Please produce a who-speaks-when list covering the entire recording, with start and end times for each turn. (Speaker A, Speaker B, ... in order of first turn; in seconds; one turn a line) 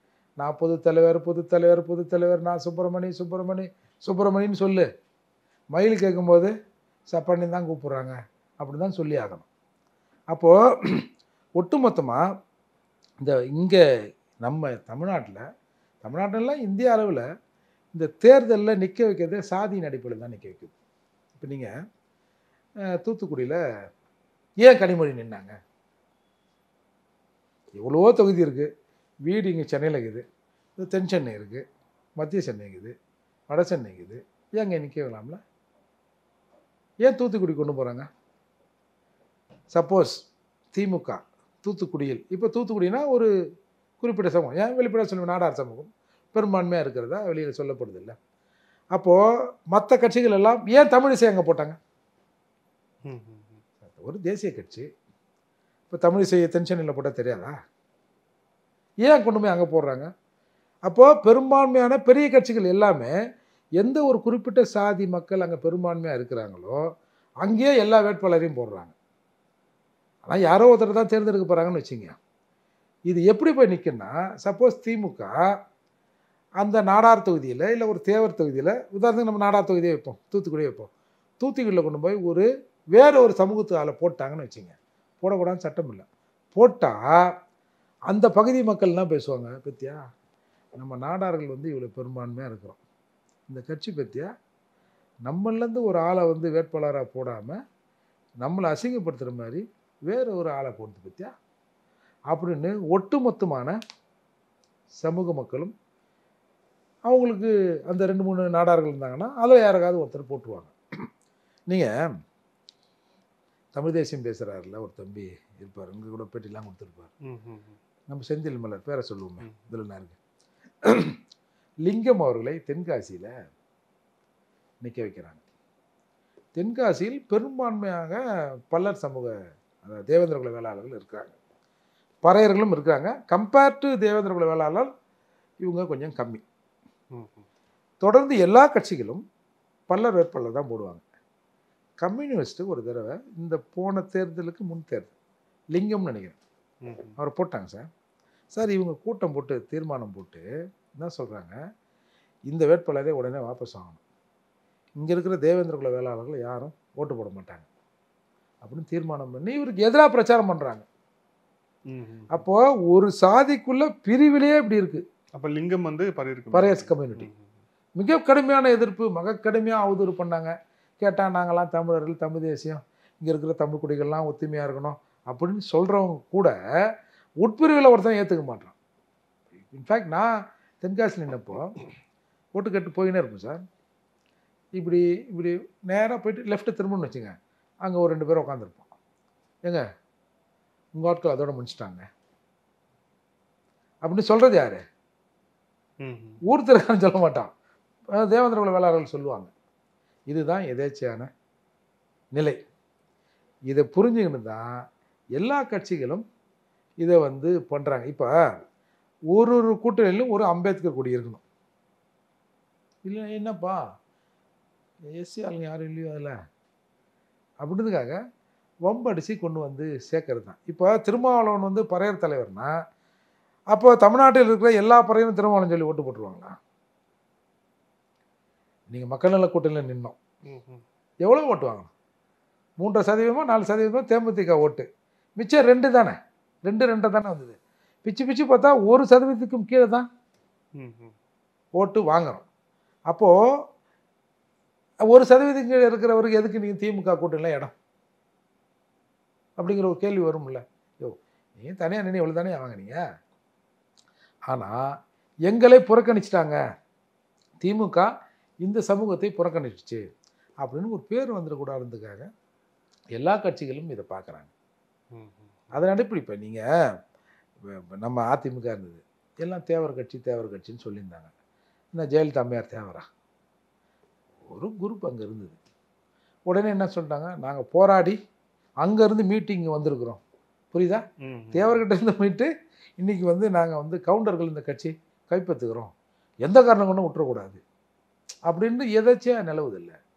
Speaker A: 0.4-4.9
Speaker A: 5.7-6.5
Speaker A: 7.1-9.5
Speaker A: 10.3-11.1
Speaker A: 11.6-12.2
Speaker A: 13.2-13.8
Speaker A: 14.4-15.4
Speaker A: 16.0-17.2
Speaker A: 17.9-20.7
Speaker A: 21.4-21.7
Speaker A: 23.0-23.6
Speaker A: 24.6-25.6
Speaker A: 27.8-28.7
Speaker A: 29.3-30.2
Speaker A: 30.8-31.6
Speaker A: 32.2-32.9
Speaker A: 33.5-35.4
Speaker A: 37.0-38.1
Speaker A: 39.7-43.3
Speaker A: 44.0-48.2
Speaker A: 49.7-51.8
Speaker B: 53.0-53.6
Speaker A: 53.8-54.9
Speaker A: 55.9-57.5
Speaker A: 59.1-60.1
Speaker A: 60.9-63.1
Speaker A: 63.8-66.8
Speaker A: 67.4-68.9
Speaker A: 70.3-72.2
Speaker A: 73.1-75.3
Speaker A: 76.6-87.3
Speaker A: 88.1-90.0
Speaker A: 90.8-92.8
Speaker A: 93.5-94.3
Speaker A: 95.3-97.6
Speaker A: 98.4-101.3
Speaker A: 102.3-103.8
Speaker A: 105.0-105.7
Speaker A: 107.1-111.0
Speaker A: 113.8-117.1
Speaker B: 117.3-117.8
Speaker A: 118.1-120.2
Speaker A: 120.9-121.2
Speaker A: 121.9-123.3
Speaker A: 124.8-125.4
Speaker A: 126.6-128.2
Speaker A: 128.7-131.3
Speaker A: 132.2-134.9
Speaker A: 135.6-136.4
Speaker B: 137.1-137.4
Speaker A: 138.0-139.2
Speaker A: 139.9-141.0
Speaker A: 142.0-145.1
Speaker A: 145.7-146.4
Speaker B: 146.8-147.2
Speaker A: 147.2-147.9
Speaker A: 148.5-150.4
Speaker A: 151.0-151.6
Speaker A: 152.5-154.0
Speaker A: 155.0-157.7
Speaker A: 158.6-160.9
Speaker B: 161.9-162.4
Speaker A: 162.3-165.0
Speaker B: 165.3-167.5
Speaker A: 166.5-167.3
Speaker A: 168.0-176.5
Speaker A: 177.4-178.8
Speaker A: 179.6-181.8
Speaker A: 182.6-183.6
Speaker A: 184.8-188.9
Speaker A: 191.0-192.1
Speaker A: 194.1-194.8
Speaker B: 196.0-196.4
Speaker A: 196.5-197.5
Speaker A: 198.2-199.5
Speaker A: 200.3-201.3
Speaker A: 203.7-204.7
Speaker A: 205.4-206.2
Speaker A: 207.0-208.3
Speaker A: 209.3-211.4
Speaker A: 213.1-213.8
Speaker A: 215.2-216.4
Speaker A: 217.6-218.2
Speaker A: 218.9-222.7
Speaker A: 223.7-226.6
Speaker A: 228.9-230.2
Speaker B: 230.4-230.8
Speaker A: 231.2-231.9
Speaker A: 232.8-234.9
Speaker A: 235.4-240.1
Speaker B: 240.8-241.1
Speaker A: 241.8-242.5
Speaker A: 245.1-247.7
Speaker A: 249.6-253.0
Speaker A: 254.5-254.8
Speaker A: 255.5-256.6
Speaker A: 257.6-258.1
Speaker A: 258.6-260.1
Speaker A: 260.6-262.3
Speaker A: 263.2-264.5
Speaker B: 265.1-265.7
Speaker A: 265.7-266.6
Speaker A: 268.0-271.3
Speaker A: 271.9-273.1
Speaker A: 274.5-275.6
Speaker A: 276.5-278.2
Speaker A: 278.8-280.2
Speaker A: 280.7-281.0
Speaker B: 281.2-281.8
Speaker A: 281.5-285.9
Speaker A: 286.5-287.6
Speaker A: 288.5-290.0